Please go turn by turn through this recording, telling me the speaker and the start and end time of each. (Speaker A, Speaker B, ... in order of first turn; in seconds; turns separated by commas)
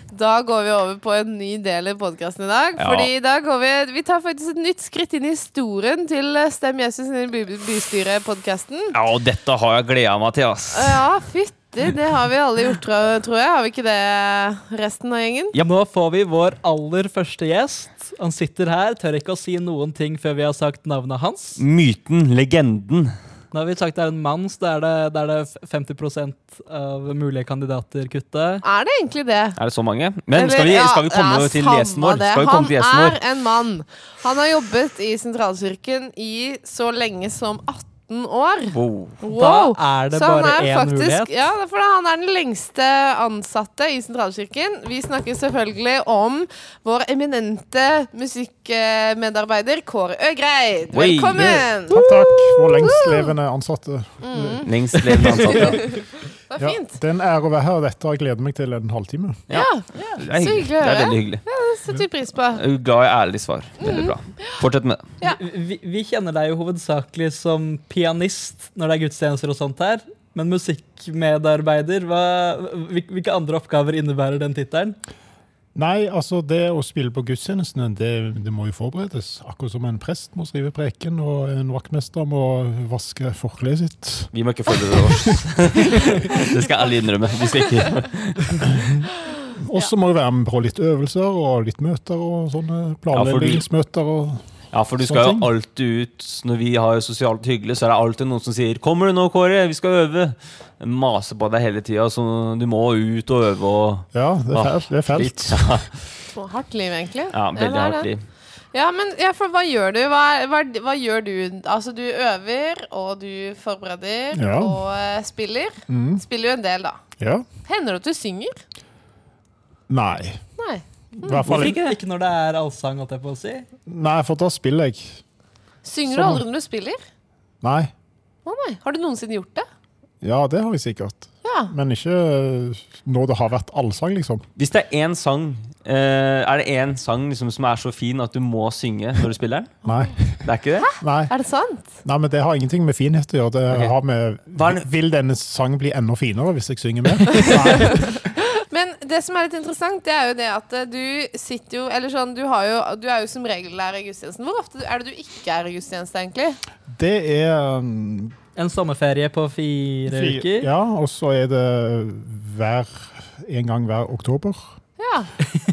Speaker A: 0.1-8.9, Speaker B: 2.8-3.1, Speaker B: 8.9-11.0, Speaker A: 10.7-15.5, Speaker C: 15.6-21.6, Speaker B: 21.6-23.1, Speaker C: 23.5-28.6, Speaker A: 28.6-29.6, Speaker B: 29.6-33.2, Speaker A: 30.3-53.3, Speaker B: 38.7-39.2, Speaker C: 39.3-41.3, Speaker B: 50.9-51.7, Speaker D: 51.3-54.6, Speaker A: 54.2-54.7, Speaker B: 54.6-56.0, Speaker C: 54.9-55.8, Speaker A: 55.5-57.0, Speaker D: 56.6-59.4, Speaker B: 59.5-61.4, Speaker A: 59.5-62.6, Speaker B: 62.5-65.1, Speaker A: 63.8-64.6, Speaker C: 65.2-75.0, Speaker D: 75.7-85.3, Speaker B: 84.3-89.0, Speaker D: 88.6-89.0, Speaker D: 89.6-94.4, Speaker B: 93.1-93.6, Speaker B: 94.7-106.1, Speaker D: 95.0-95.5, Speaker D: 104.1-105.8, Speaker A: 106.3-108.1, Speaker B: 107.3-108.2, Speaker A: 108.7-117.0, Speaker D: 114.3-114.8, Speaker D: 115.9-116.2, Speaker D: 117.2-117.5, Speaker A: 117.7-118.6, Speaker D: 119.9-120.4, Speaker A: 120.6-121.4, Speaker D: 121.2-121.8, Speaker B: 121.4-122.0, Speaker C: 121.4-123.7, Speaker D: 123.9-125.2, Speaker A: 125.8-127.0, Speaker D: 126.1-126.4, Speaker D: 127.6-127.9, Speaker A: 128.4-129.7, Speaker D: 130.2-134.4, Speaker A: 131.4-131.7, Speaker B: 134.6-139.8, Speaker D: 139.8-140.4, Speaker B: 140.4-140.9, Speaker A: 140.8-141.9, Speaker D: 141.0-141.3, Speaker D: 142.0-148.2, Speaker B: 144.5-144.8, Speaker A: 147.3-156.6, Speaker D: 156.9-158.3, Speaker C: 158.6-160.7, Speaker D: 160.1-164.6, Speaker A: 165.0-165.3